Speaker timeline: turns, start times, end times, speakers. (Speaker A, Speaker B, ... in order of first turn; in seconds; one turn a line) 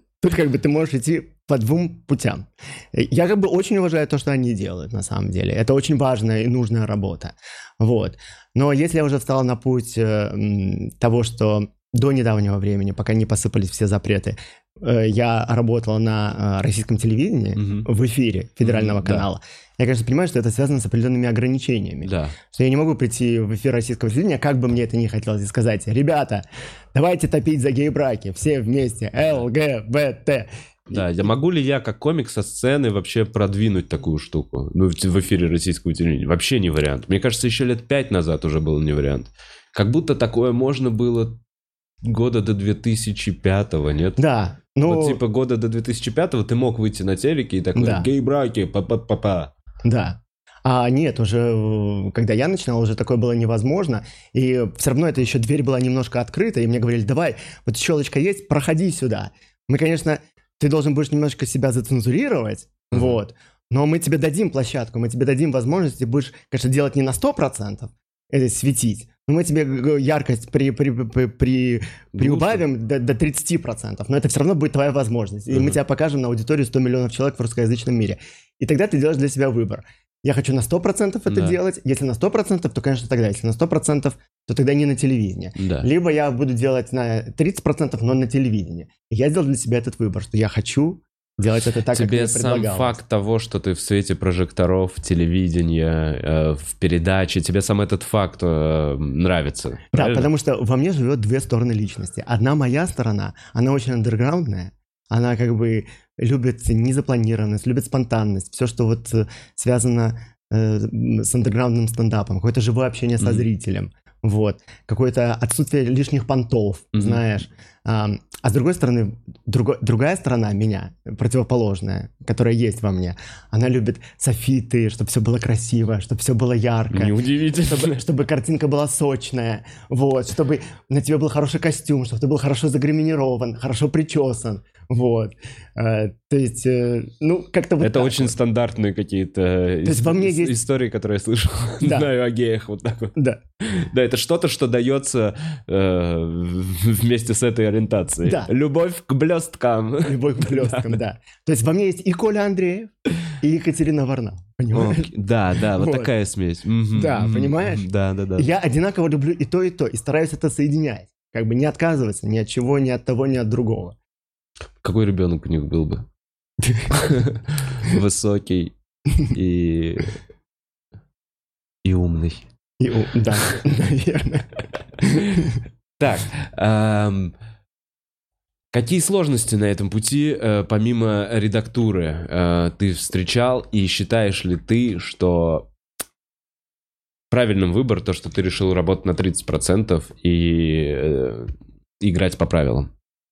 Speaker A: 0.2-31.1
Speaker B: 17.5-17.9
Speaker B: 18.6-19.3
Speaker B: 22.0-22.4
Speaker B: 30.9-41.4
Speaker B: 42.0-44.2
Speaker A: 44.2-45.2
Speaker B: 44.8-49.5
Speaker A: 47.7-48.1
Speaker A: 49.8-93.0
Speaker B: 62.9-63.2
Speaker B: 72.1-72.6
Speaker B: 75.5-75.8
Speaker B: 81.3-81.5
Speaker B: 85.6-85.9
Speaker B: 91.9-100.3
Speaker A: 99.9-138.3
Speaker B: 113.2-113.5
Speaker B: 116.9-117.2
Speaker B: 126.9-128.0
Speaker B: 137.8-151.0
Speaker A: 139.8-140.6
Speaker A: 141.8-142.1
Speaker A: 143.2-143.4
Speaker A: 148.2-148.5
Speaker A: 150.0-155.1
Speaker B: 154.7-158.5
Speaker A: 155.8-156.1
Speaker A: 156.9-164.0
Speaker B: 164.8-166.1
Speaker A: 166.6-166.9
Speaker B: 166.9-170.2
Speaker B: 171.8-172.4
Speaker A: 172.8-175.6
Speaker B: 175.3-177.3
Speaker B: 178.7-185.7
Speaker B: 187.3-192.9